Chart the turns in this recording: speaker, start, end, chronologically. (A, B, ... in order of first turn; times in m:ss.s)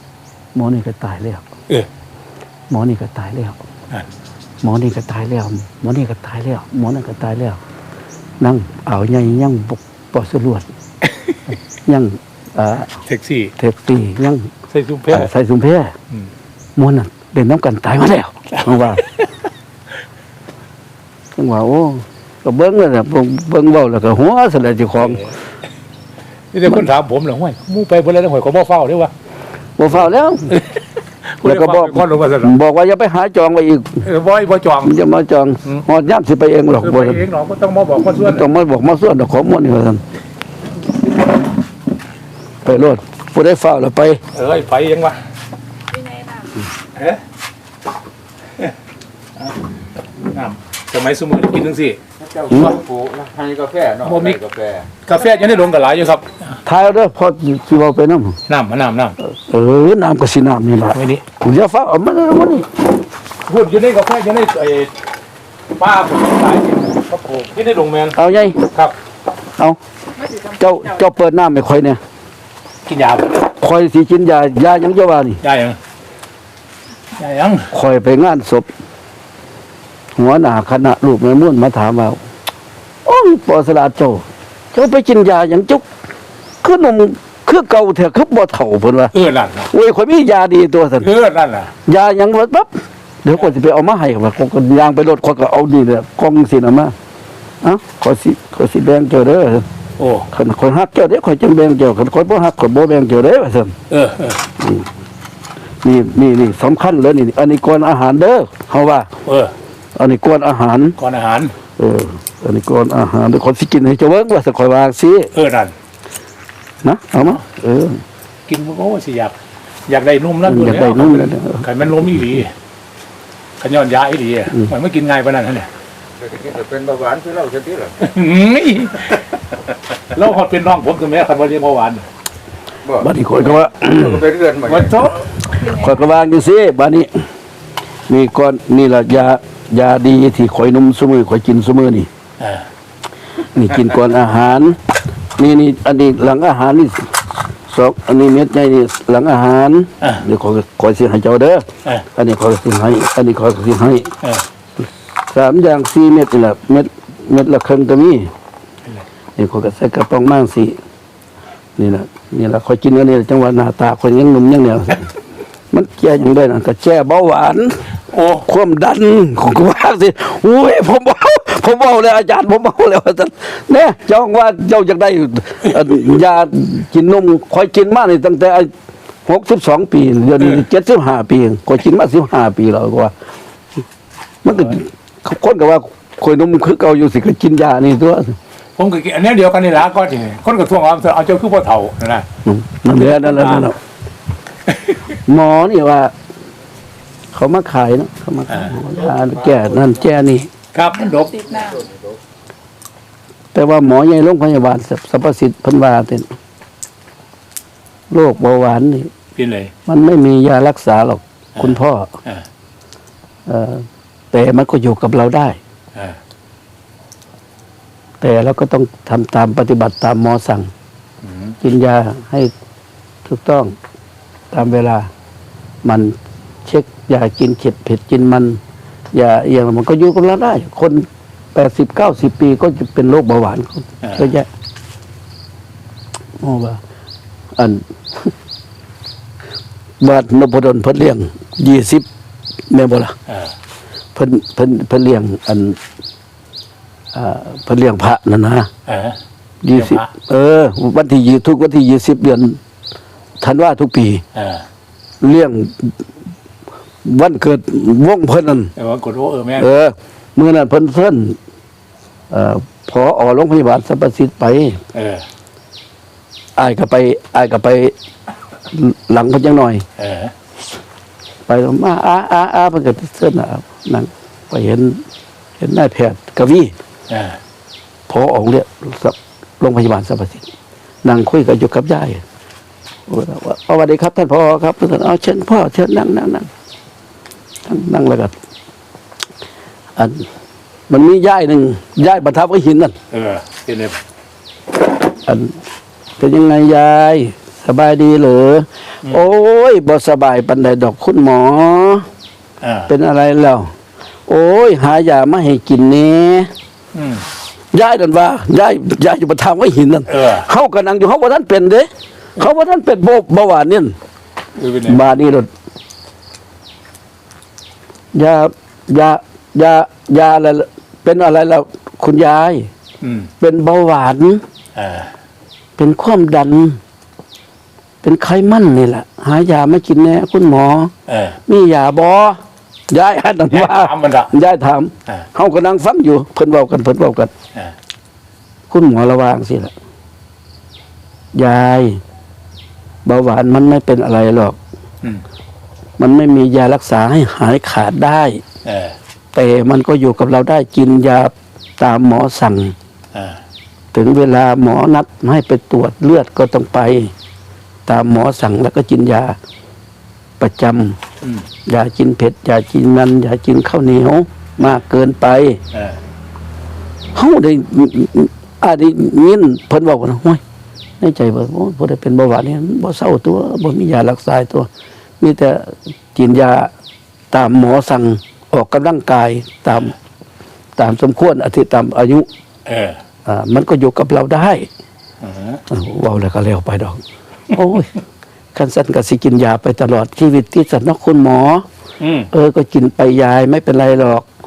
0:00.5-0:01.5 A
0:02.7-0:03.6 A
0:04.6-0:07.6 A
0:08.4-0:10.6 A
0:11.0-0:11.6 B
0:11.8-0:12.9 A
0:13.0-0:13.5 B
0:13.6-0:14.5 A
0:14.7-0:15.3 B
0:15.1-0:15.9 A
0:16.8-0:19.0 A
0:18.5-0:19.3 B
0:21.3-0:25.2 A
0:25.0-0:25.3 B
0:26.5-0:29.1 B
0:29.8-0:30.5 A
0:30.5-0:32.6 B
0:31.4-0:34.0 A
0:34.0-0:34.9 B
0:34.8-0:37.2 A
0:36.8-0:38.4 B
0:38.0-0:40.0 A
0:42.6-0:44.2 A
0:44.3-0:45.2 B
0:45.9-0:46.6 C
0:46.9-0:47.2 B
0:50.3-0:52.0 B
0:52.2-0:54.9 D
0:52.5-0:52.8 A
0:54.0-0:54.4 B
0:55.0-0:56.6 B
0:55.2-0:55.8 C
0:56.6-0:58.4 A
0:58.5-0:59.2 B
0:59.2-1:02.7 A
1:00.9-1:01.2 B
1:03.4-1:04.9 B
1:05.8-1:08.2 B
1:08.1-1:08.6 A
1:10.1-1:11.1 C
1:10.6-1:12.0 A
1:12.8-1:13.4 B
1:13.5-1:15.4 A
1:15.4-1:15.8 B
1:17.2-1:17.7 B
1:17.7-1:18.7 A
1:20.2-1:22.2 A
1:23.0-1:25.8 A
1:26.6-1:29.1 A
1:29.1-1:29.7 B
1:29.7-1:31.1 A
1:31.0-1:31.7 B
1:31.8-1:32.7 A
1:33.2-1:36.9 A
1:37.6-1:39.6 A
1:40.0-1:40.3 B
1:40.3-1:43.8 A
1:43.9-1:44.4 B
1:44.6-1:44.9 A
1:45.8-1:49.1 A
1:49.2-1:49.5 B
1:50.0-1:51.0 A
1:51.0-1:51.6 B
1:51.8-1:55.3 A
1:55.3-1:55.7 B
1:56.8-1:58.0 A
1:58.5-1:59.4 B
1:59.9-2:02.5 B
2:00.4-2:02.4 A
2:03.6-2:05.7 B
2:06.2-2:08.0 D
2:08.0-2:09.2 B
2:10.1-2:12.0 B
2:12.8-2:15.1 D
2:13.0-2:14.2 A
2:14.6-2:15.3 B
2:15.5-2:16.0 C
2:15.6-2:17.1 A
2:18.1-2:22.1 A
2:22.4-2:22.7 B
2:23.5-2:24.8 A
2:25.4-2:27.1 A
2:27.7-2:34.1 A
2:34.8-2:38.3 A
2:39.4-2:40.8 A
2:41.8-2:45.1 A
2:45.7-2:47.8 A
2:48.1-2:48.5 B
2:48.4-2:58.7 A
2:59.2-3:03.1 A
3:04.4-3:08.4 A
3:04.5-3:04.8 B
3:08.8-3:12.3 B
3:12.4-3:13.8 A
3:12.9-3:13.7 B
3:14.7-3:15.0 B
3:15.2-3:16.1 A
3:17.3-3:20.5 A
3:18.5-3:18.7 B
3:18.8-3:20.0 D
3:20.7-3:21.3 B
3:21.0-3:21.9 C
3:21.4-3:22.2 D
3:23.5-3:26.3 A
3:28.1-3:29.1 A
3:29.4-3:29.7 B
3:29.9-3:32.1 A
3:31.6-3:32.4 B
3:33.4-3:35.6 A
3:35.9-3:36.2 B
3:38.2-3:40.7 A
3:41.2-3:41.6 B
3:41.6-3:42.5 A
3:43.2-3:43.7 A
3:44.5-3:45.1 A
3:45.8-3:48.6 A
3:49.1-3:54.5 A
3:54.0-3:54.3 B
3:56.4-3:56.8 A
3:57.6-3:58.3 A
4:00.0-4:02.0 A
4:02.7-4:03.1 A
4:03.3-4:03.5 B
4:04.1-4:05.8 A
4:07.1-4:08.7 A
4:08.8-4:09.2 B
4:09.6-4:12.6 A
4:09.7-4:10.1 B
4:13.4-4:14.2 A
4:14.3-4:14.6 B
4:15.2-4:16.0 A
4:17.0-4:18.7 A
4:18.8-4:19.7 B
4:19.6-4:21.4 A
4:22.3-4:24.8 A
4:24.9-4:25.2 B
4:26.6-4:27.9 A
4:28.7-4:29.8 A
4:30.0-4:30.3 B
4:31.5-4:35.0 A
4:35.6-4:36.7 A
4:37.1-4:37.4 B
4:38.1-4:40.5 A
4:41.0-4:42.2 A
4:43.1-4:46.5 A
4:47.6-4:48.3 A
4:50.0-4:50.3 A
4:50.9-4:52.9 A
4:53.1-4:54.0 B
4:55.2-4:55.6 A
4:56.2-5:02.0 A
5:02.6-5:02.9 B
5:02.9-5:03.7 A
5:04.3-5:06.5 A
5:06.9-5:07.2 B
5:07.7-5:14.0 A
5:10.1-5:10.5 B
5:14.6-5:15.0 B
5:14.9-5:15.5 A
5:18.1-5:22.7 A
5:23.0-5:23.3 B
5:23.4-5:24.4 A
5:24.7-5:25.1 B
5:25.8-5:26.8 A
5:28.0-5:30.9 A
5:31.1-5:31.4 B
5:31.5-5:37.3 A
5:33.5-5:34.3 B
5:38.7-5:39.7 A
5:41.3-5:42.0 A
5:43.0-5:44.6 A
5:46.0-5:48.4 A
5:48.6-5:49.0 B
5:49.3-5:52.7 A
5:53.1-5:53.4 B
5:53.9-5:57.1 A
5:57.8-5:59.4 A
6:00.4-6:01.0 A
6:01.6-6:05.6 A
6:05.7-6:06.0 B
6:07.1-6:10.4 A
6:11.0-6:14.7 A
6:15.2-6:16.7 A
6:17.3-6:19.9 A
6:20.8-6:22.3 A
6:22.6-6:23.0 B
6:23.2-6:24.7 A
6:25.2-6:25.6 B
6:25.7-6:27.9 A
6:28.5-6:31.6 A
6:32.0-6:32.3 B
6:32.3-6:34.2 A